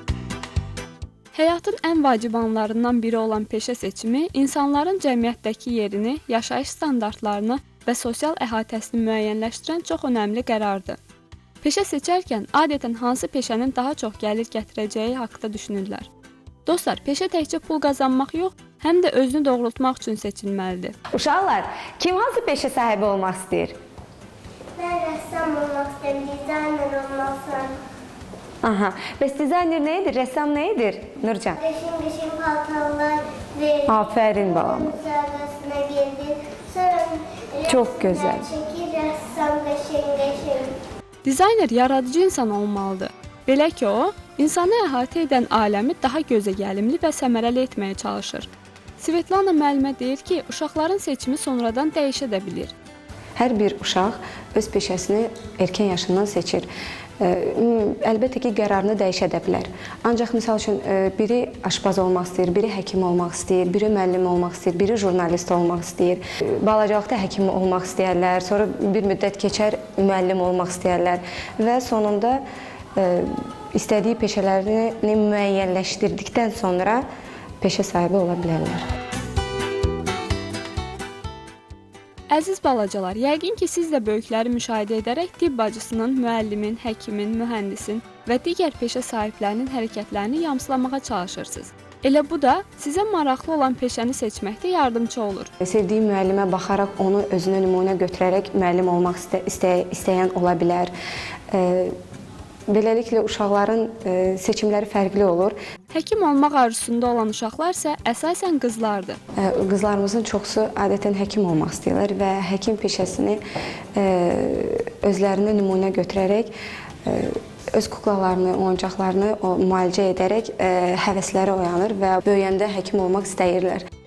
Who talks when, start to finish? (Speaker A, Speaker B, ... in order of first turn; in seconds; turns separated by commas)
Speaker A: 1.3-11.0, Speaker A: 11.6-16.1, Speaker A: 16.7-21.0, Speaker B: 21.1-23.8, Speaker C: 24.8-27.8, Speaker B: 28.6-31.6, Speaker C: 31.6-33.9, Speaker B: 33.9-34.9, Speaker C: 34.8-40.7, Speaker B: 37.6-38.5, Speaker A: 41.2-48.5, Speaker A: 49.0-52.7, Speaker B: 53.4-56.7, Speaker B: 57.2-72.4, Speaker B: 73.0-77.1, Speaker B: 77.6-78.8, Speaker A: 82.3-95.5, Speaker B: 95.6-100.9, Speaker B: 101.5-102.0, Speaker B: 102.7-105.6, Speaker A: 105.9-109.2, Speaker B: 109.4-113.4, Speaker B: 114.0-116.5, Speaker B: 117.0-123.8